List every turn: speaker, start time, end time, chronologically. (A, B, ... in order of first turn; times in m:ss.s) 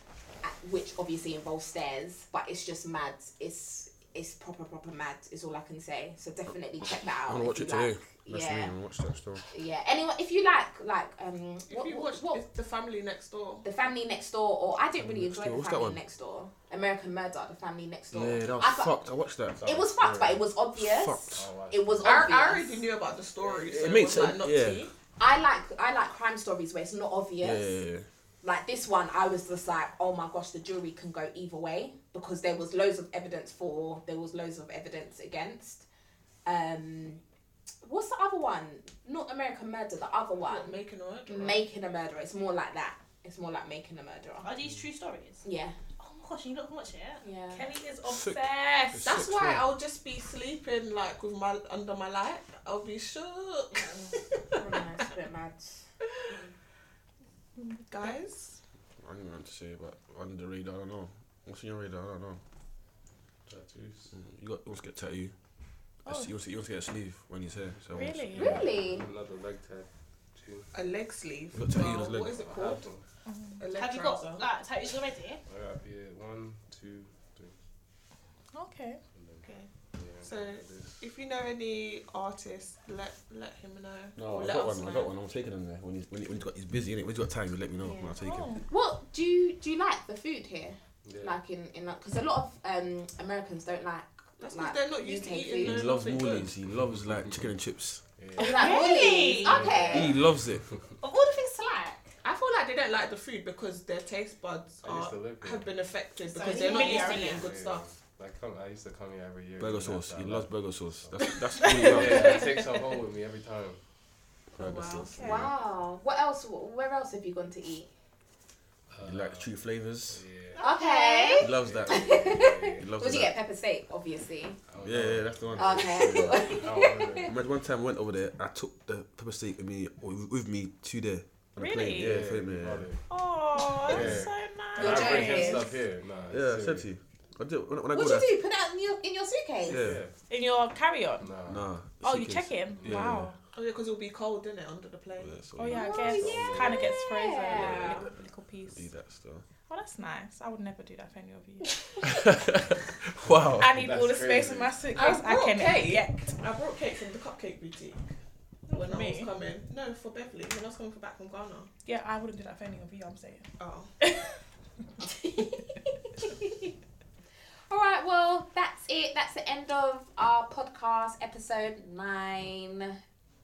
0:00.4-0:08.7 A
0:07.2-0:09.4 B
0:09.5-0:12.4 A
0:11.7-0:13.6 C
0:13.6-0:18.9 A
0:15.0-0:16.0 B
0:18.1-0:19.6 B
0:19.5-0:20.4 D
0:19.6-0:22.8 A
0:20.8-0:21.5 B
0:21.3-0:22.3 D
0:22.0-0:24.9 C
0:23.4-0:24.3 D
0:23.8-0:24.9 B
0:25.2-0:27.7 A
0:27.4-0:28.1 B
0:28.4-0:35.8 A
0:36.4-0:37.2 A
0:37.8-0:44.5 A
0:40.4-0:41.6 C
0:44.4-0:45.4 E
0:45.4-0:45.7 A
0:46.0-0:47.2 E
0:47.2-0:47.6 A
0:47.5-0:49.1 F
0:48.0-0:49.6 B
0:49.0-0:54.8 C
0:53.7-0:54.1 E
0:54.5-0:55.7 A
0:56.3-0:56.5 E
0:57.9-0:58.6 C
0:59.0-1:02.4 B
1:03.4-1:04.1 D
1:04.1-1:05.3 B
1:06.0-1:06.3 F
1:06.0-1:08.6 B
1:07.9-1:08.6 F
1:08.4-1:09.1 A
1:08.5-1:10.7 D
1:10.7-1:12.9 C
1:11.5-1:12.4 B
1:11.8-1:13.0 D
1:13.3-1:13.6 F
1:13.6-1:14.4 C
1:13.7-1:15.4 E
1:15.5-1:17.6 D
1:18.5-1:19.0 F
1:19.2-1:21.1 D
1:19.4-1:19.7 C
1:20.2-1:25.1 C
1:24.2-1:28.6 B
1:28.2-1:28.6 F
1:28.7-1:35.8 A
1:31.0-1:31.4 D
1:34.4-1:36.5 C
1:35.6-1:38.0 B
1:36.8-1:37.5 D
1:38.2-1:38.7 D
1:38.4-1:39.4 F
1:38.4-1:40.2 A
1:38.5-1:39.8 E
1:39.4-1:40.9 D
1:39.9-1:40.7 B
1:41.0-1:42.0 A
1:42.2-1:47.9 C
1:44.8-1:45.8 D
1:46.3-1:47.5 E
1:46.4-1:47.3 F
1:46.5-1:47.3 A
1:47.3-1:53.8 D
1:49.6-1:52.5 B
1:51.6-1:52.1 F
1:54.5-1:55.2 C
1:54.6-1:55.5 D
1:54.6-1:55.1 B
1:55.2-1:57.9 A
1:58.9-2:00.6 D
1:59.0-2:00.2 B
2:00.6-2:01.5 E
2:00.6-2:04.6 A
2:01.4-2:02.2 B
2:01.5-2:03.1 D
2:02.8-2:03.4 B
2:04.7-2:07.3 D
2:04.8-2:06.6 B
2:05.6-2:07.3 A
2:07.3-2:12.9 B
2:11.6-2:12.2 F
2:11.9-2:13.0 D
2:13.1-2:15.6 F
2:13.8-2:16.9 D
2:13.9-2:14.2 B
2:14.8-2:15.7 A
2:16.3-2:18.4 B
2:17.9-2:19.9 A
2:19.7-2:20.0 B
2:19.7-2:20.1 D
2:20.3-2:21.3 F
2:21.2-2:21.7 D
2:21.5-2:23.3 B
2:22.0-2:23.4 F
2:22.8-2:23.2 D
2:23.5-2:25.4 C
2:25.2-2:25.8 B
2:25.6-2:28.9 F
2:25.7-2:28.1 A
2:25.7-2:27.1 D
2:27.5-2:28.1 B
2:28.7-2:29.4 B
2:29.7-2:31.9 F
2:32.2-2:33.8 B
2:33.2-2:34.8 D
2:33.6-2:36.4 F
2:34.9-2:38.1 C
2:38.7-2:41.7 C
2:38.7-2:39.3 F
2:41.8-2:44.4 F
2:43.6-2:43.9 C
2:45.0-2:46.7 A
2:47.7-2:53.0 A